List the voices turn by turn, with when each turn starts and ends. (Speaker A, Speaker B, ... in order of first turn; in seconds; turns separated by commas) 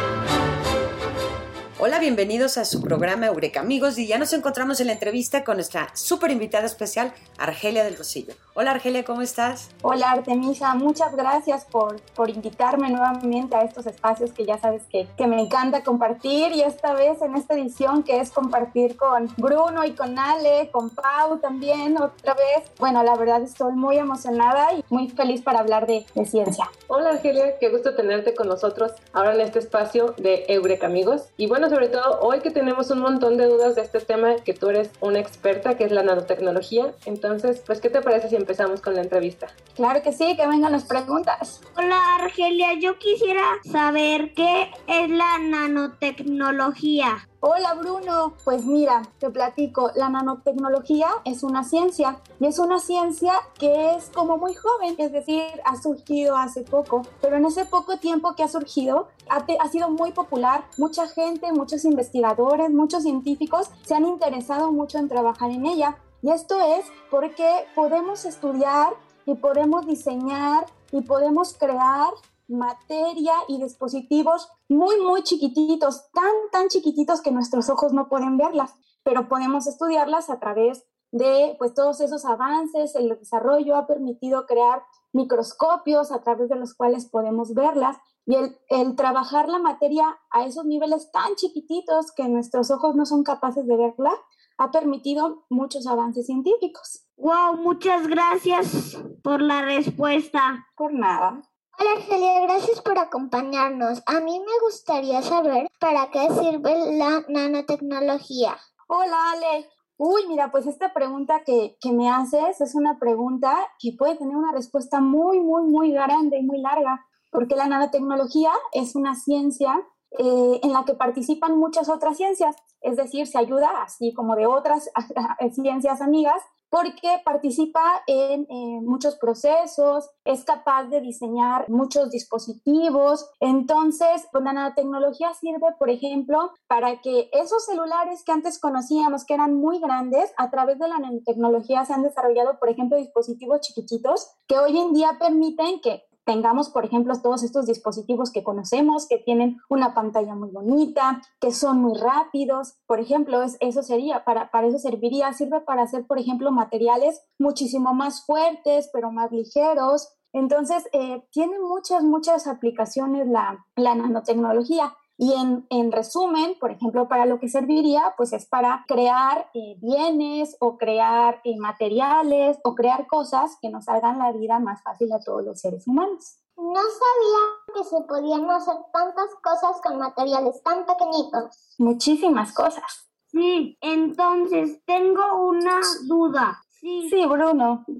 Speaker A: 1.8-9.7, Speaker B: 9.8-26.7, Speaker C: 26.9-39.5, Speaker B: 39.8-41.6, Speaker D: 41.8-47.2, Speaker B: 47.4-97.0, Speaker D: 97.2-100.6, Speaker B: 100.8-101.4, Speaker E: 101.8-108.6, Speaker B: 108.9-176.4, Speaker E: 176.6-181.5, Speaker B: 181.8-183.0, Speaker D: 183.3-187.2, Speaker B: 187.0-187.8